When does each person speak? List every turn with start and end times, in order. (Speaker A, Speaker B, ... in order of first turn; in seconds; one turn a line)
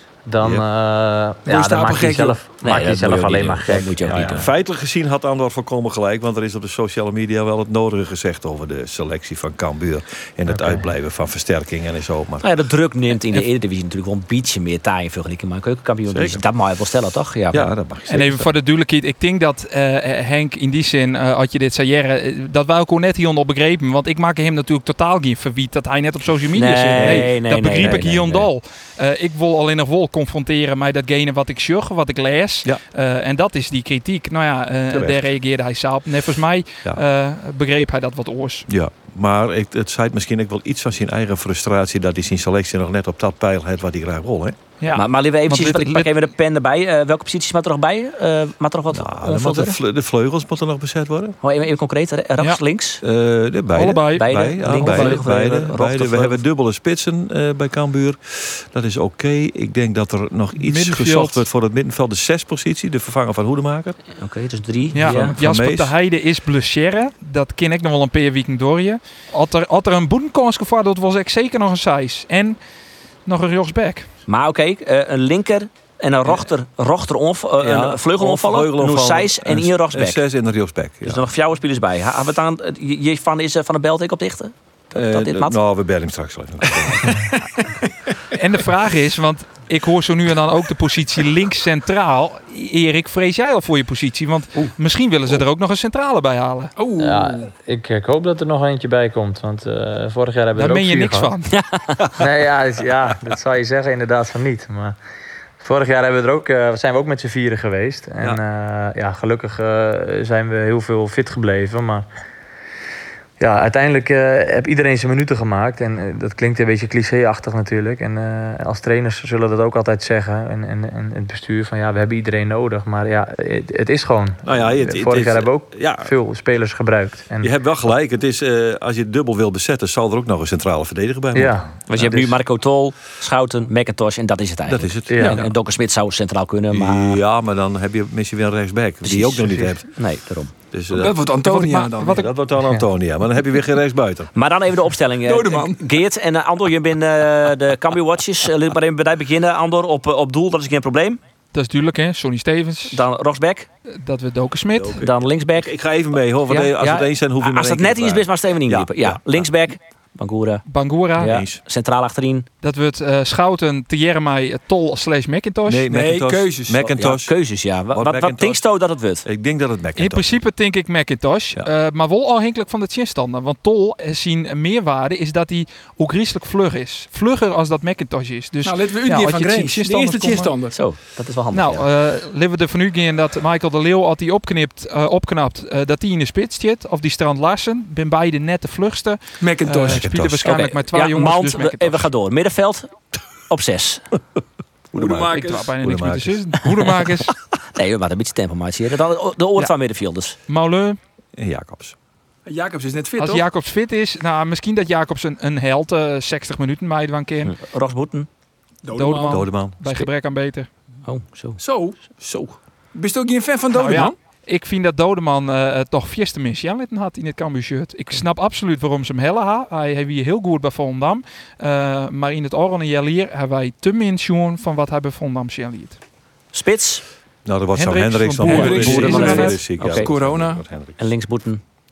Speaker A: 0.2-4.4
Speaker B: 1.4-2.4
Speaker C: 2.6-4.5
Speaker D: 4.3-12.5
Speaker A: 10.5-10.8
Speaker C: 12.4-17.7
Speaker D: 16.1-16.4
Speaker D: 17.5-18.5
Speaker E: 18.1-38.7
Speaker C: 26.5-28.4
Speaker D: 26.9-27.3
Speaker D: 27.9-28.4
Speaker D: 34.9-35.2
Speaker D: 38.7-44.6
Speaker E: 44.8-46.1
Speaker C: 44.9-49.8
Speaker D: 48.9-51.4
Speaker C: 51.4-53.0
Speaker D: 53.0-64.0
Speaker E: 53.7-55.2
Speaker C: 54.1-56.4
Speaker E: 60.6-61.4
Speaker C: 64.2-65.4
Speaker E: 64.9-72.6
Speaker D: 65.0-65.9
Speaker E: 73.2-74.1
Speaker C: 74.3-80.2
Speaker D: 77.6-81.2
Speaker C: 81.0-85.6
Speaker D: 84.9-87.2
Speaker B: 86.8-87.8
Speaker E: 88.3-96.7
Speaker B: 96.8-97.5
Speaker A: 97.0-101.3
Speaker E: 100.5-101.5
Speaker C: 101.5-102.1
Speaker A: 102.2-105.0
Speaker A: 105.6-112.1
Speaker A: 113.4-127.5
Speaker D: 124.4-126.1
Speaker D: 127.4-131.8
Speaker A: 131.3-132.3
Speaker C: 131.9-137.2
Speaker D: 134.7-135.5
Speaker A: 135.1-135.4
Speaker D: 136.7-140.2
Speaker C: 139.0-140.5
Speaker D: 140.7-141.2
Speaker B: 140.9-142.2
Speaker E: 141.4-142.2
Speaker D: 142.1-144.3
Speaker C: 144.3-151.2
Speaker B: 145.2-145.8
Speaker E: 151.5-153.0
Speaker C: 152.9-153.7
Speaker E: 153.9-155.0
Speaker D: 154.7-159.5
Speaker C: 155.0-155.8
Speaker C: 156.5-160.6
Speaker E: 160.7-161.3
Speaker C: 161.2-162.5
Speaker D: 161.2-161.6
Speaker E: 162.6-165.8
Speaker D: 165.7-167.4
Speaker B: 165.9-166.8
Speaker C: 166.8-169.2
Speaker D: 167.9-168.6
Speaker D: 169.2-170.4
Speaker E: 170.0-180.6
Speaker B: 178.6-180.8
Speaker C: 180.7-181.9
Speaker E: 181.5-192.1
Speaker B: 189.4-190.1
Speaker D: 189.9-190.6
Speaker C: 190.4-194.1
Speaker D: 194.9-196.6
Speaker B: 194.9-195.7
Speaker E: 195.3-197.3
Speaker C: 197.8-200.4
Speaker E: 200.5-201.0
Speaker D: 201.3-201.9
Speaker B: 202.4-203.4
Speaker E: 203.2-207.5
Speaker C: 207.4-208.3
Speaker B: 208.8-209.6
Speaker E: 208.9-210.7
Speaker D: 209.3-210.1
Speaker C: 211.0-211.6
Speaker B: 211.6-212.1
Speaker B: 212.9-214.2
Speaker E: 213.7-226.0
Speaker C: 226.5-227.0
Speaker D: 227.4-231.0
Speaker E: 227.7-229.7
Speaker B: 228.4-230.6
Speaker C: 228.8-230.3
Speaker C: 231.0-231.6